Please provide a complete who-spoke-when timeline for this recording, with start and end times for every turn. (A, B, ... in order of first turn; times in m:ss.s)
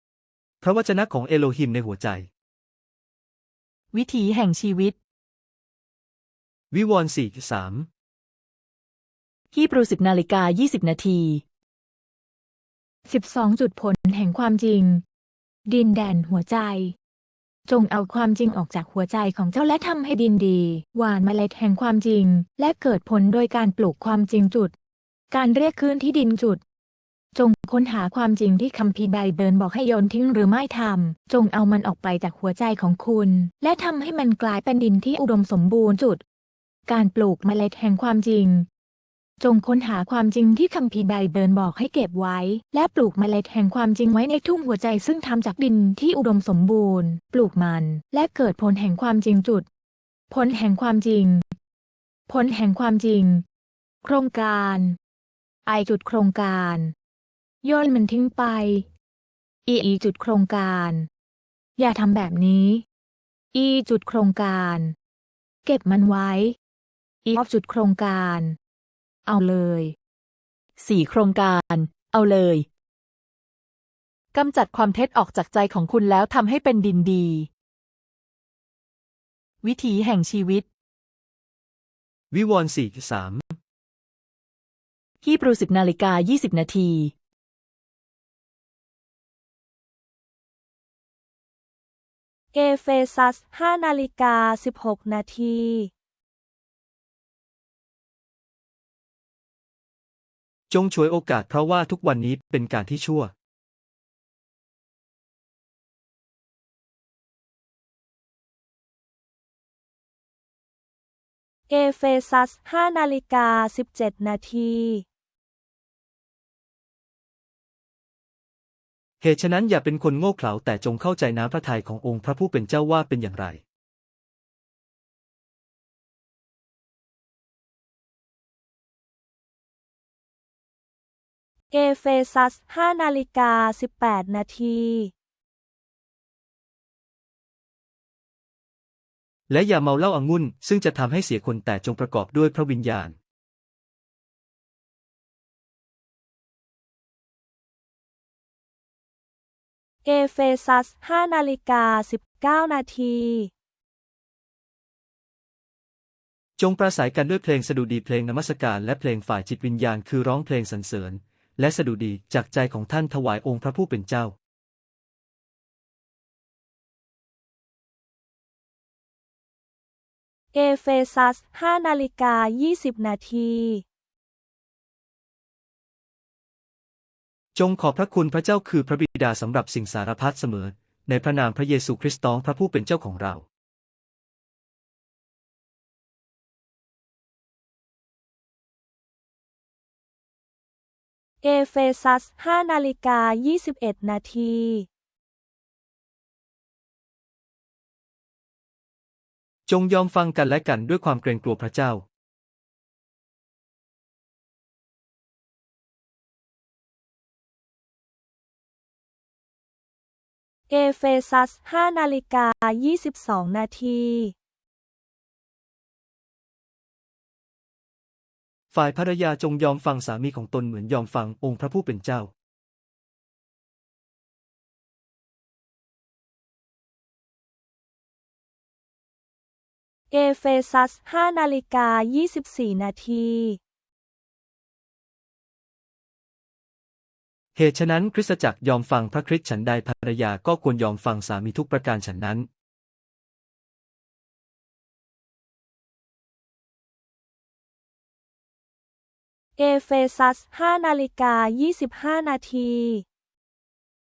0:00.6-0:02.3 A
0:03.9-0:05.0 B
0:06.7-0:07.9 A
0:09.5-0:11.4 B
0:13.1-0:15.0 C
0:15.7-0:17.0 C
0:17.7-0:24.7 C
0:25.3-0:26.6 C
0:27.4-0:36.2 C
0:36.9-0:38.7 C
0:39.4-0:49.7 C
0:50.3-0:51.5 C
0:52.3-0:53.4 C
0:54.0-0:55.0 C
0:55.7-0:56.9 C
0:57.6-0:58.9 C
0:59.7-1:01.1 C
1:01.8-1:02.8 C
1:03.5-1:05.0 C
1:05.7-1:06.6 C
1:07.3-1:08.6 C
1:09.3-1:10.0 C
1:10.8-1:12.7 B
1:14.3-1:17.5 B
1:19.6-1:20.6 B
1:22.3-1:23.6 A
1:25.2-1:27.1 B
1:32.5-1:35.9 D
1:40.7-1:43.3 A
1:51.7-1:55.0 D
1:59.2-2:03.6 A
2:11.7-2:15.1 D
2:19.5-2:23.2 A
2:30.0-2:33.5 D
2:36.6-2:44.4 A
2:50.5-2:53.8 D
2:57.6-3:03.4 A
3:11.4-3:14.9 D
3:19.7-3:22.0 A
3:30.7-3:34.3 D
3:38.7-3:42.3 A
3:50.1-3:53.6 D
3:57.6-4:02.5 A
4:09.6-4:13.0 D